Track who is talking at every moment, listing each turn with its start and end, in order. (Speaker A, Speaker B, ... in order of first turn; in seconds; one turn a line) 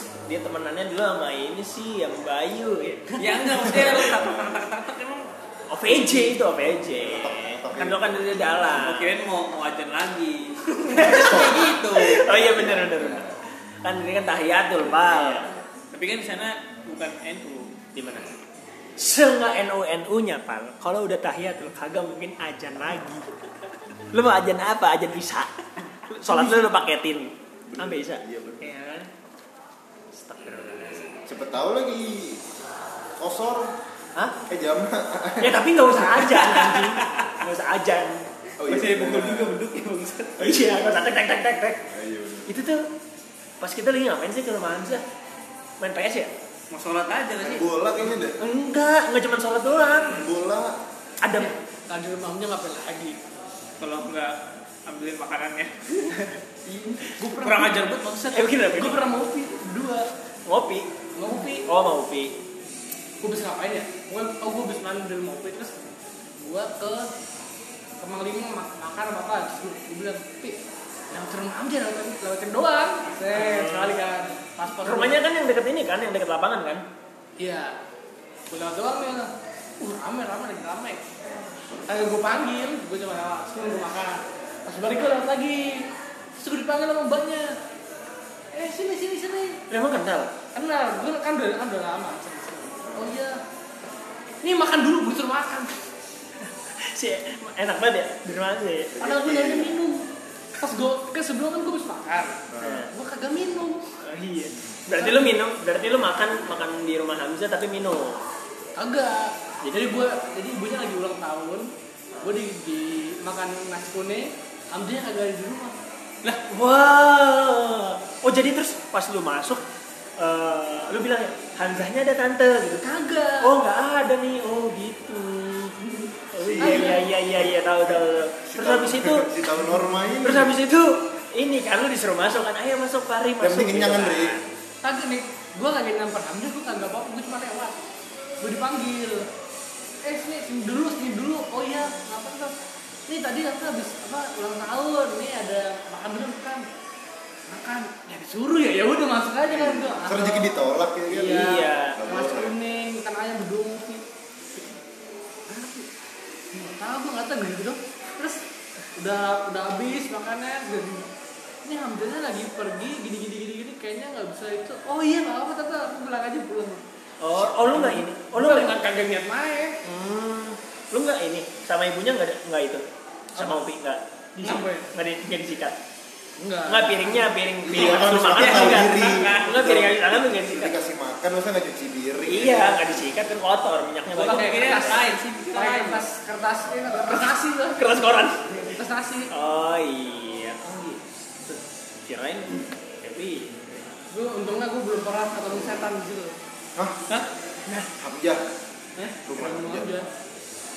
Speaker A: 0.2-3.3
Speaker B: 3.2-5.3
Speaker C: 3.7-4.6
Speaker A: 5.7-9.1
Speaker C: 5.9-8.8
Speaker B: 8.7-12.3
Speaker A: 10.9-13.3
Speaker C: 11.0-13.4
Speaker A: 13.8-15.5
Speaker C: 14.8-15.6
Speaker B: 15.9-17.8
Speaker A: 17.9-18.3
Speaker A: 19.0-23.2
Speaker A: 24.1-29.1
Speaker C: 26.2-26.6
Speaker C: 27.7-28.7
Speaker A: 30.1-31.2
Speaker C: 31.2-32.4
Speaker C: 33.2-33.7
Speaker C: 34.5-36.0
Speaker A: 35.4-38.2
Speaker B: 36.3-37.3
Speaker C: 38.6-39.6
Speaker B: 38.7-40.8
Speaker A: 40.4-41.8
Speaker C: 40.5-41.2
Speaker C: 41.9-42.5
Speaker A: 42.5-42.9
Speaker A: 43.6-45.0
Speaker A: 45.8-46.3
Speaker B: 46.7-47.7
Speaker C: 47.4-48.4
Speaker A: 48.4-50.3
Speaker C: 49.9-50.7
Speaker A: 51.2-51.5
Speaker D: 51.3-53.2
Speaker B: 53.8-54.4
Speaker B: 54.9-56.1
Speaker D: 56.7-57.7
Speaker B: 57.1-59.0
Speaker A: 58.3-59.1
Speaker D: 58.7-60.1
Speaker A: 60.5-62.3
Speaker D: 61.1-61.6
Speaker D: 63.2-65.7
Speaker D: 66.4-67.1
Speaker D: 68.0-70.6
Speaker D: 71.1-75.2
Speaker A: 73.3-74.0
Speaker A: 74.8-76.8
Speaker D: 77.4-77.7
Speaker D: 78.5-81.0
Speaker D: 81.9-85.8
Speaker D: 86.4-87.5
Speaker D: 88.5-89.6
Speaker A: 89.7-90.3
Speaker D: 90.5-93.4
Speaker C: 92.8-93.2
Speaker D: 94.4-95.7
Speaker A: 96.4-99.0
Speaker C: 98.9-99.8
Speaker D: 99.0-100.0
Speaker D: 100.6-102.4
Speaker C: 102.5-102.9
Speaker A: 102.6-102.9
Speaker D: 102.9-103.9
Speaker A: 104.0-108.2
Speaker D: 104.9-105.4
Speaker D: 108.8-111.7
Speaker A: 109.6-109.9
Speaker D: 112.2-115.8
Speaker A: 116.2-119.6
Speaker A: 120.2-122.8
Speaker D: 122.8-123.5
Speaker A: 123.4-125.7
Speaker A: 126.3-129.3
Speaker C: 126.3-130.6
Speaker D: 126.6-127.0
Speaker A: 130.2-134.5
Speaker C: 133.4-134.4
Speaker D: 134.8-137.8
Speaker D: 138.4-139.3
Speaker D: 140.0-142.6
Speaker D: 143.1-146.7
Speaker D: 147.5-154.0
Speaker C: 149.5-152.6
Speaker A: 151.2-152.0
Speaker D: 155.5-155.9
Speaker D: 156.5-158.4
Speaker D: 158.9-161.1
Speaker D: 161.6-166.8
Speaker A: 167.2-168.8
Speaker D: 167.6-169.7
Speaker A: 169.8-172.8
Speaker A: 173.3-175.8
Speaker D: 173.4-173.6
Speaker D: 174.4-174.9
Speaker D: 176.4-177.3
Speaker A: 176.7-180.7
Speaker C: 177.6-183.2
Speaker B: 177.7-179.6
Speaker A: 182.3-185.1
Speaker B: 184.1-186.0
Speaker D: 184.2-187.9
Speaker A: 187.8-188.6
Speaker D: 188.7-189.3
Speaker A: 189.3-191.0
Speaker A: 192.1-192.5
Speaker A: 193.0-193.9
Speaker D: 194.1-196.3
Speaker C: 198.0-198.4
Speaker D: 199.0-200.1
Speaker C: 199.2-200.1